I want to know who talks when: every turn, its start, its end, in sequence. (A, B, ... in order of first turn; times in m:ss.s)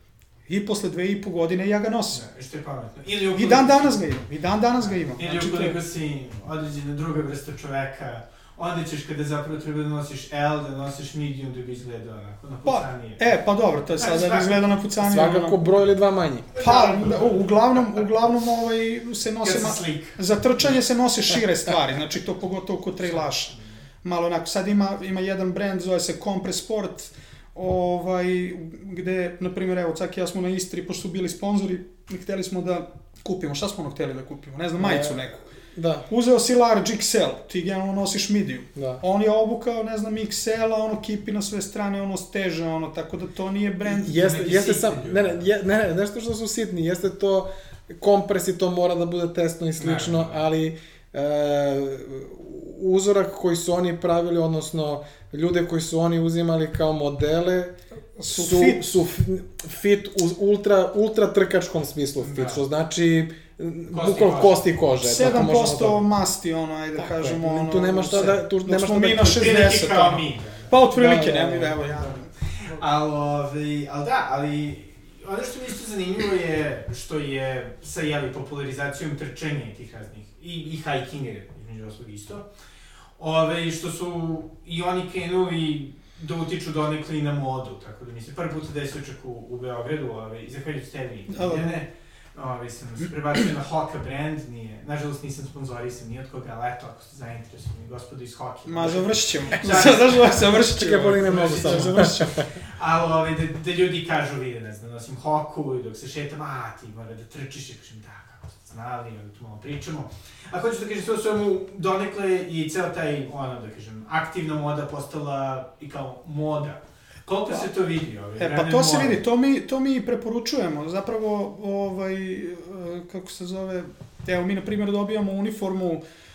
0:00.5-0:02.2 A
0:02.1-0:04.1 B
0:03.4-0:05.8 A
0:04.8-0:13.4 B
0:12.6-0:15.6 A
0:13.9-0:14.7 B
0:15.0-0:16.6 C
0:16.6-0:17.4 B
0:16.6-0:35.4 A
0:19.4-0:20.8 B
0:23.0-0:23.7 B
0:34.8-0:36.1 C
0:36.1-0:44.5 A
0:38.8-0:39.0 C
0:43.9-0:57.8 C
0:44.1-0:45.4 B
0:49.8-0:50.4 B
0:58.2-0:59.0 A
0:58.3-1:06.0 C
1:02.2-1:02.6 B
1:03.9-1:04.7 B
1:05.0-1:12.8 A
1:07.0-1:09.6 C
1:09.2-1:10.7 B
1:11.0-1:11.7 C
1:11.8-1:22.4 B
1:23.2-1:40.6 B
1:31.3-1:31.8 A
1:38.6-1:42.4 A
1:40.6-1:42.5 C
1:41.2-1:59.2 B
1:58.4-2:06.0 A